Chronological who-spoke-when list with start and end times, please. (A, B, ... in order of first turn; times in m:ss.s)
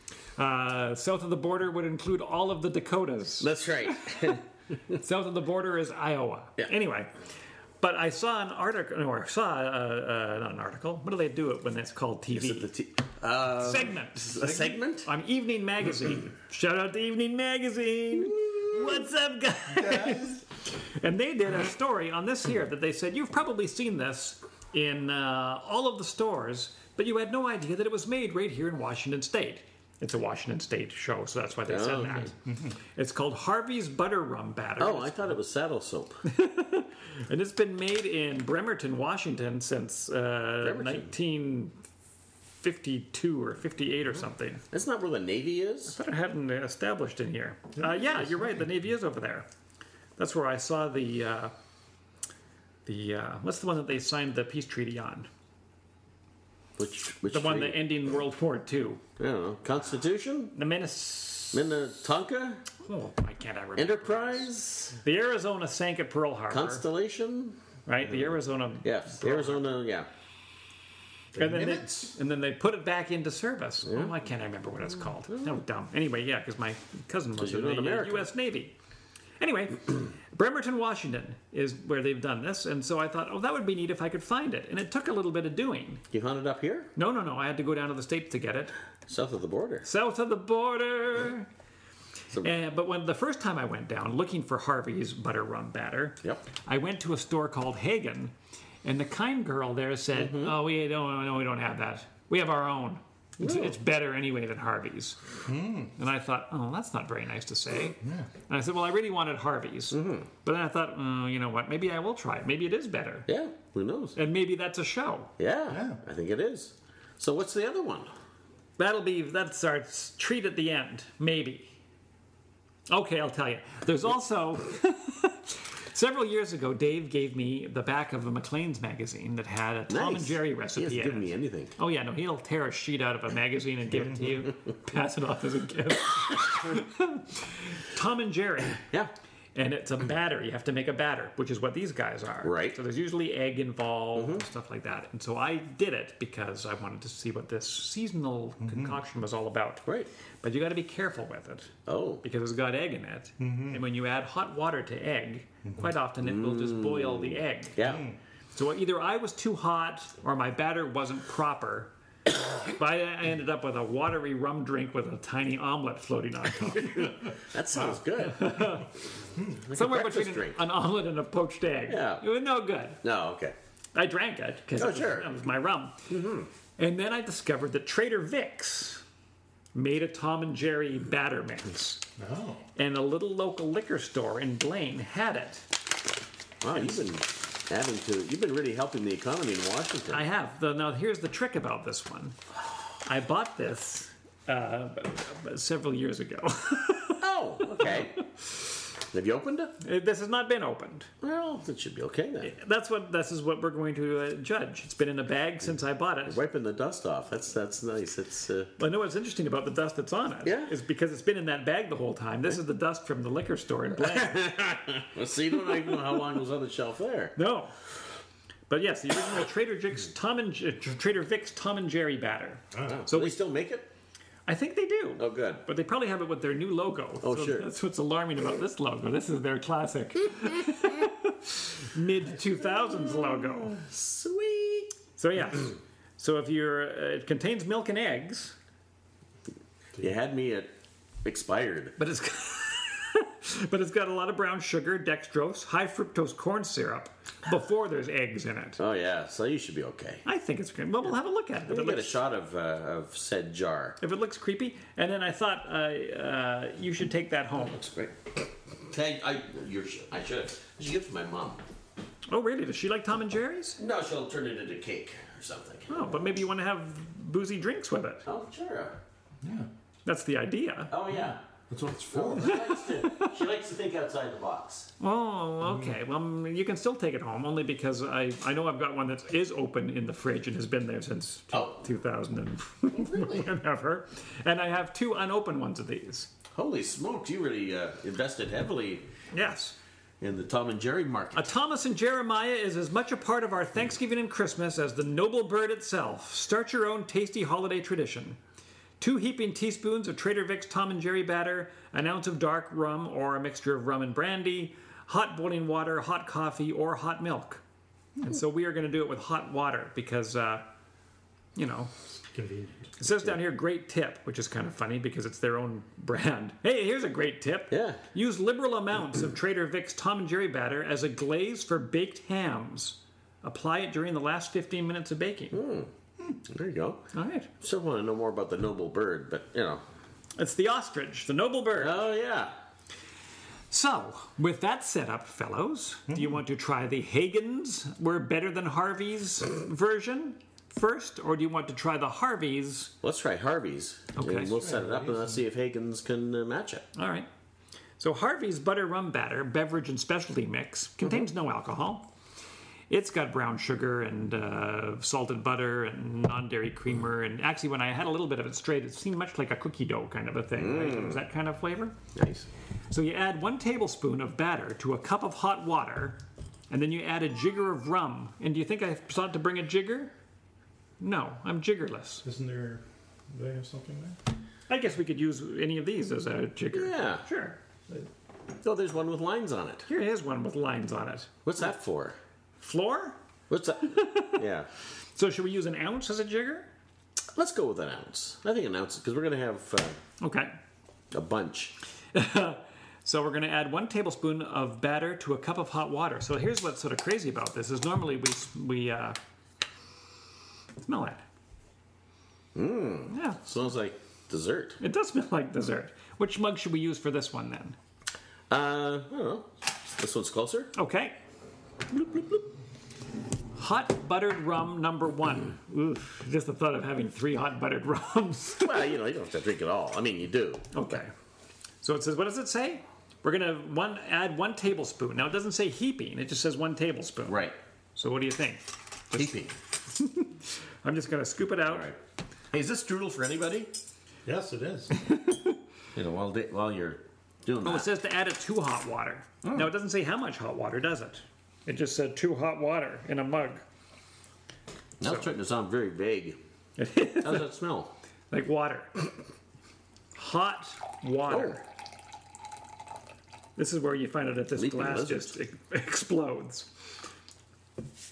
0:00.4-0:04.4 A
0:03.4-0:04.9 B
0:04.9-0:07.1 A
0:07.8-0:12.7 A
0:12.3-0:15.1 B
0:13.6-0:32.4 A
0:18.4-0:18.9 B
0:19.7-0:20.4 C
0:31.7-0:32.3 B
0:32.4-0:32.7 C
0:32.9-0:35.3 A
0:34.8-0:36.2 B
0:36.2-0:41.8 A
0:40.6-0:41.1 B
0:42.6-0:44.6 A
0:44.7-0:46.0 B
0:45.9-0:49.5 A
0:48.0-0:48.5 C
0:50.2-0:51.5 A
0:52.8-0:55.3 A
0:56.8-0:57.8 B
0:57.3-0:59.0 A
0:59.2-1:00.5 B
1:00.5-1:01.7 A
1:01.5-1:02.6 B
1:02.8-1:06.8 A
1:03.8-1:05.0 B
1:06.5-1:08.3 B
1:07.8-1:09.6 A
1:08.8-1:10.1 B
1:11.3-1:12.1 C
1:11.4-1:18.7 A
1:13.8-1:14.2 B
1:17.4-1:18.3 B
1:19.4-1:26.0 A
1:26.1-1:26.9 B
1:27.0-1:28.7 A
1:29.1-1:29.9 B
1:29.8-1:31.5 A
1:32.4-1:38.3 A
1:38.8-1:45.2 A
1:40.1-1:40.6 B
1:43.4-1:43.8 B
1:45.4-1:45.9 C
1:46.0-1:53.3 A
1:48.0-1:48.3 C
1:49.9-1:50.3 B
1:53.3-1:54.2 B
1:54.2-1:55.3 A
1:55.4-1:58.1 B
1:55.7-1:56.0 C
1:58.8-2:01.7 A
2:02.9-2:18.8 A
2:09.9-2:11.7 B
2:18.8-2:19.1 B
2:19.5-2:29.8 A
2:22.4-2:22.8 B
2:24.1-2:24.4 B
2:28.6-2:29.0 C
2:30.4-2:31.7 A
2:31.8-2:32.2 B
2:32.2-2:37.8 A
2:33.4-2:33.8 C
2:36.2-2:38.0 B
2:37.8-2:38.2 C
2:38.5-2:41.9 A
2:42.5-2:47.3 A
2:46.8-2:48.8 B
2:48.2-2:48.9 A
2:49.4-2:50.6 B
2:49.7-2:53.0 A
2:51.9-2:52.2 B
2:53.0-2:53.5 B
2:53.9-2:56.0 A
2:54.8-2:55.3 B
2:56.1-2:56.5 B
2:56.8-2:59.0 A
2:59.7-3:02.0 A
3:02.2-3:02.6 C
3:02.8-3:05.6 A
3:06.6-3:10.2 B
3:10.1-3:12.4 A
3:13.0-3:18.2 A
3:17.2-3:18.2 B
3:19.1-3:19.7 B
3:19.8-3:21.1 A
3:21.2-3:22.5 B
3:22.4-3:26.4 A
3:26.3-3:28.7 B
3:28.8-3:34.4 A
3:30.4-3:30.7 B
3:34.0-3:37.4 B
3:37.4-3:37.7 A
3:38.7-3:43.4 A
3:42.8-3:43.9 B
3:44.5-3:53.8 A
3:45.2-3:45.6 B
3:47.2-3:47.7 B
3:52.6-3:54.9 B
3:55.2-3:58.6 A
4:00.0-4:00.7 B
4:01.2-4:02.0 B
4:02.0-4:08.8 A
4:08.8-4:10.2 B
4:10.2-4:12.2 A
4:11.7-4:14.0 B
4:14.0-4:17.8 A
4:17.6-4:18.2 B
4:18.9-4:21.6 B
4:22.3-4:23.8 A
4:23.8-4:26.2 B
4:25.9-4:28.2 A
4:28.2-4:29.0 B
4:29.4-4:29.7 C
4:30.0-4:30.9 A
4:30.9-4:31.4 B
4:31.1-4:32.6 C
4:32.1-4:34.9 B
4:32.4-4:33.3 A
4:35.0-4:46.3 A
4:41.5-4:41.8 B
4:42.9-4:43.5 B
4:46.5-4:49.1 B
4:49.3-4:49.8 A
4:50.2-4:51.5 B
4:51.3-4:58.4 A
4:59.0-5:07.6 A
5:08.2-5:10.7 A
5:11.6-5:11.9 A
5:12.3-5:12.9 C
5:13.0-5:25.6 A
5:17.7-5:18.0 B
5:25.5-5:25.9 B
5:26.4-5:27.0 B
5:27.1-5:27.5 A
5:27.6-5:29.8 B
5:30.4-5:32.0 A
5:31.8-5:32.5 B
5:33.7-5:42.9 A
5:36.1-5:36.4 C
5:43.0-5:46.9 B
5:44.2-5:44.5 A
5:44.5-5:45.4 C
5:46.9-5:47.3 A
5:48.0-5:52.1 A
5:52.9-6:01.9 A
6:00.6-6:01.2 B
6:02.1-6:02.5 B
6:02.9-6:10.1 A
6:11.0-6:12.2 A
6:12.2-6:14.2 C
6:14.7-6:17.6 A
6:16.7-6:17.2 B
6:18.6-6:19.9 B
6:19.8-6:21.3 A
6:21.4-6:22.2 B
6:22.6-6:23.2 A
6:23.5-6:24.7 B
6:23.8-6:24.4 A
6:25.1-6:26.7 A
6:27.3-6:30.0 B
6:30.2-6:30.5 A
6:31.1-6:31.8 B
6:32.1-6:39.2 A
6:40.8-6:41.2 A
6:42.5-6:44.8 B
6:43.1-6:43.4 A
6:44.8-6:47.8 A
6:48.5-6:50.7 B
6:50.7-6:51.2 A
6:51.9-6:52.4 B
6:53.6-6:58.9 A
6:58.6-7:01.0 B
7:00.7-7:01.1 A
7:01.8-7:09.3 A
7:07.3-7:07.5 B
7:09.1-7:09.5 B
7:09.9-7:11.9 A
7:11.7-7:12.0 B
7:12.5-7:13.7 B
7:14.2-7:14.9 C
7:15.0-7:15.6 A
7:15.9-7:17.9 B
7:17.6-7:23.6 A
7:19.4-7:19.7 B
7:25.0-7:26.4 B
7:26.8-7:27.5 A
7:27.2-7:27.9 B
7:28.3-7:29.0 A
7:30.1-7:31.6 A
7:31.3-7:31.6 B
7:33.6-7:36.7 A
7:34.6-7:35.3 B